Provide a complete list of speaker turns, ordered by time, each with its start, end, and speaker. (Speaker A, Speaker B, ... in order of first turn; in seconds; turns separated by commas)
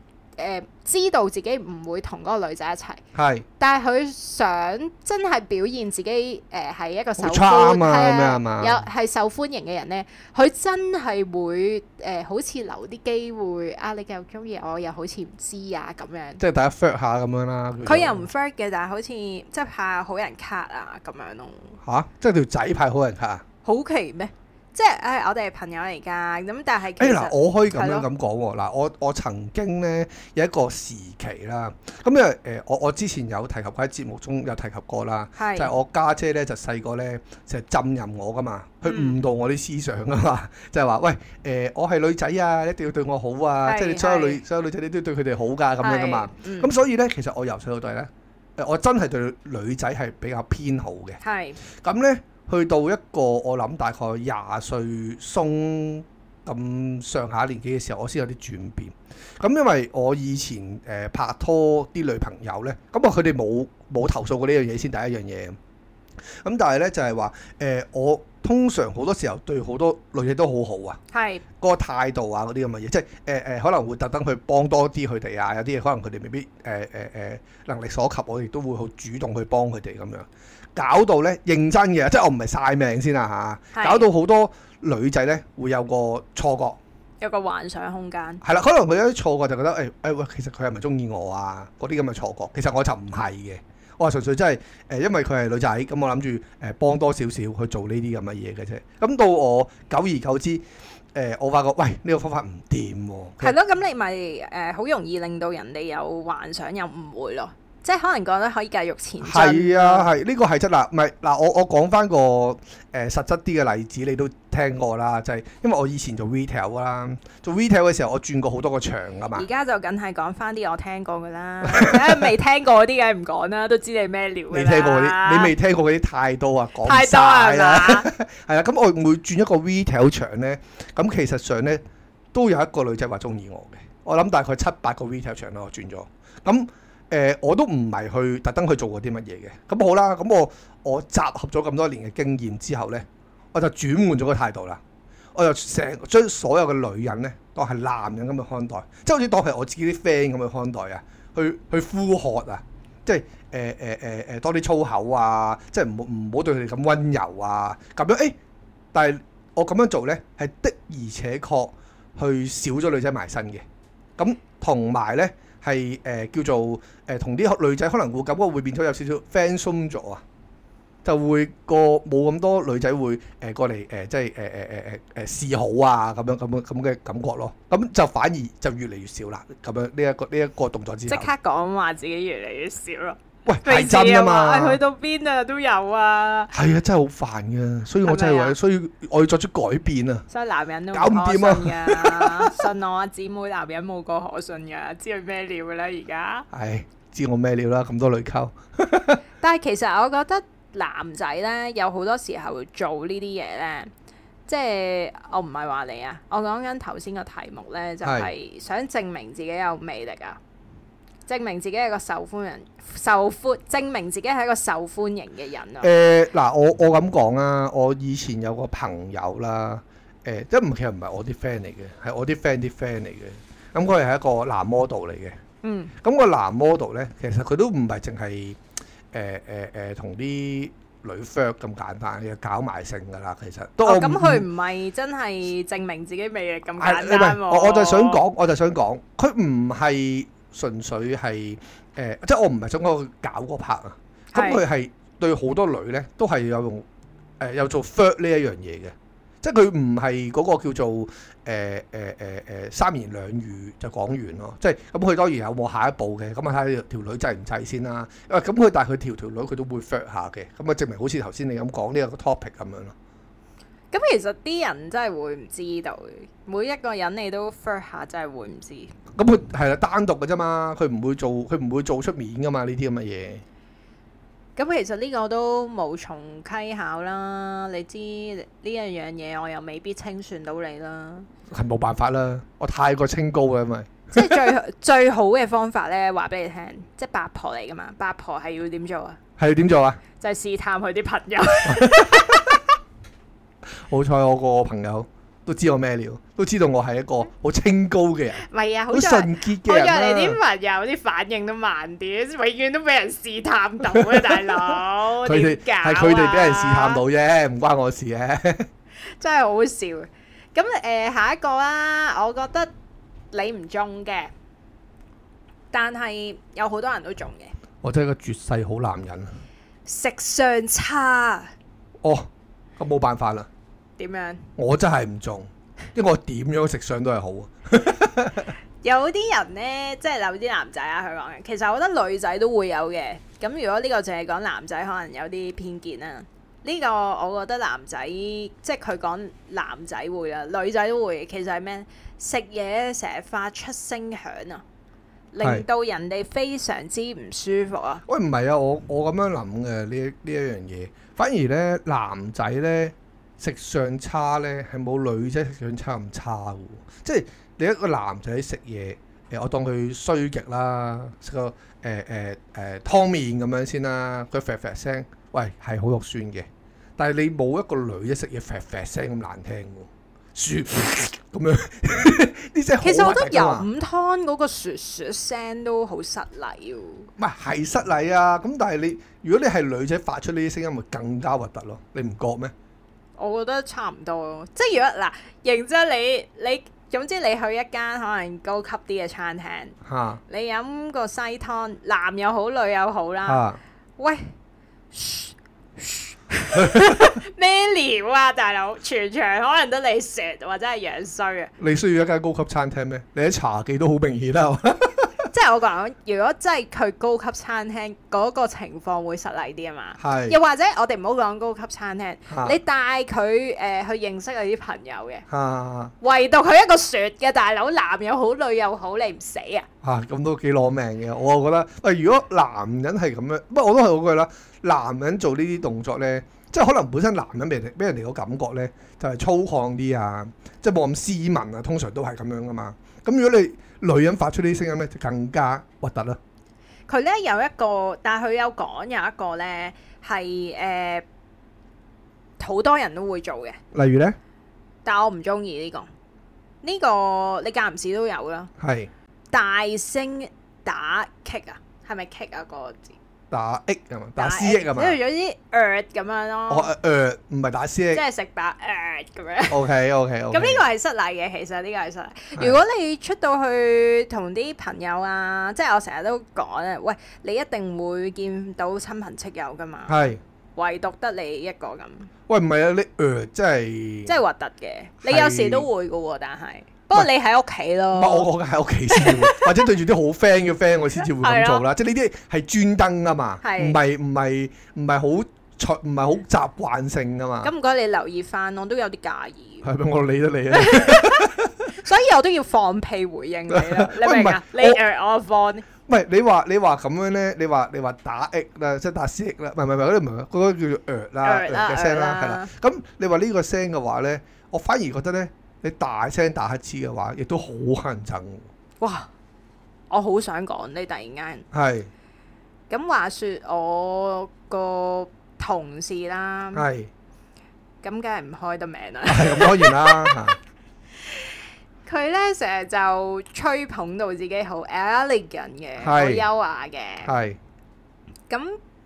Speaker A: 0.4-3.0, Speaker B: 3.1-3.4, Speaker A: 3.6-16.4, Speaker B: 7.2-8.8, Speaker B: 16.4-18.2, Speaker A: 17.8-21.8, Speaker B: 21.8-23.4, Speaker A: 23.6-28.1, Speaker B: 27.0-51.2, Speaker A: 35.4-35.7, Speaker A: 38.9-39.1, Speaker A: 43.6-44.4, Speaker A: 45.8-46.7, Speaker A: 51.2-51.6, Speaker B: 51.8-65.5, Speaker B: 66.4-71.0, Speaker A: 71.1-71.4, Speaker B: 71.6-86.8, Speaker A: 83.7-84.0, Speaker A: 87.2-88.4, Speaker B: 88.4-100.6, Speaker B: 101.1-103.5, Speaker A: 103.4-110.1, Speaker B: 109.2-119.5, Speaker A: 119.3-125.5, Speaker B: 121.6-122.3, Speaker B: 124.5-131.8, Speaker A: 126.8-128.1, Speaker B: 132.3-144.8, Speaker B: 145.3-158.3, Speaker B: 158.9-163.6, Speaker B: 164.2-170.2, Speaker B: 171.0-181.3, Speaker A: 181.1-186.5, Speaker B: 183.4-184.8, Speaker B: 186.5-190.2, Speaker A: 188.0-188.6, Speaker A: 190.3-196.4, Speaker B: 190.9-192.6, Speaker B: 196.5-199.2, Speaker A: 199.4-203.9, Speaker A: 204.5-210.4, Speaker B: 208.0-208.3, Speaker A: 211.3-215.9, Speaker B: 215.8-225.3, Speaker A: 225.6-225.9, Speaker B: 226.0-228.6, Speaker B: 229.1-234.4, Speaker A: 233.8-238.2, Speaker B: 236.8-246.8, Speaker A: 244.3-244.6, Speaker B: 247.4-262.9, Speaker A: 263.9-268.9, Speaker B: 269.1-273.4, Speaker A: 274.6-281.3, Speaker B: 281.5-284.5, Speaker A: 284.1-289.2, Speaker B: 289.4-290.0, Speaker A: 290.2-292.6, Speaker B: 291.6-292.6, Speaker B: 293.9-300.4, Speaker A: 298.4-307.0, Speaker B: 305.2-308.7, Speaker A: 309.2-312.7, Speaker A: 313.3-314.3, Speaker A: 315.7-317.5, Speaker B: 317.8-319.3, Speaker A: 319.9-321.5, Speaker B: 322.0-323.5, Speaker A: 324.0-324.4, Speaker B: 324.6-328.5, Speaker A: 328.8-344.6, Speaker A: 345.3-348.0, Speaker B: 348.1-366.4, Speaker B: 367.0-373.6, Speaker A: 372.8-377.1, Speaker B: 377.2-382.5, Speaker A: 383.2-389.8, Speaker B: 389.8-390.2, Speaker A: 390.3-393.4, Speaker B: 393.2-393.6, Speaker A: 394.0-394.3, Speaker A: 394.9-401.5, Speaker B: 396.6-397.1, Speaker B: 401.6-405.1, Speaker A: 405.3-415.2, Speaker B: 410.0-410.4, Speaker B: 412.3-412.6, Speaker B: 415.3-415.9, Speaker A: 416.0-419.7, Speaker B: 419.8-436.2, Speaker A: 436.9-441.0, Speaker A: 442.4-443.6, Speaker B: 443.7-444.2, Speaker A: 444.8-445.9, Speaker A: 446.6-448.5, Speaker B: 448.6-448.9, Speaker A: 449.3-452.9, Speaker B: 453.3-455.0, Speaker A: 454.2-456.7, Speaker B: 456.5-458.0, Speaker A: 457.9-459.6, Speaker B: 459.5-460.6, Speaker A: 460.3-470.0, Speaker B: 469.9-470.2, Speaker A: 470.6-472.1, Speaker B: 472.3-474.1, Speaker A: 474.1-478.3, Speaker B: 475.0-475.7, Speaker B: 477.9-487.5, Speaker A: 478.9-479.5, Speaker A: 481.0-481.6, Speaker A: 483.4-483.8, Speaker A: 487.4-489.6, Speaker B: 489.6-491.7, Speaker A: 490.5-495.6, Speaker B: 493.5-494.8, Speaker B: 495.9-508.4, Speaker A: 501.2-502.5, Speaker A: 508.8-509.1, Speaker A: 509.9-511.4, Speaker B: 511.5-511.9, Speaker A: 512.7-516.6, Speaker B: 516.5-516.9, Speaker A: 517.8-520.2, Speaker B: 519.1-520.4, Speaker A: 521.9-527.1, Speaker B: 525.8-526.2, Speaker B: 527.0-527.4, Speaker A: 528.3-528.6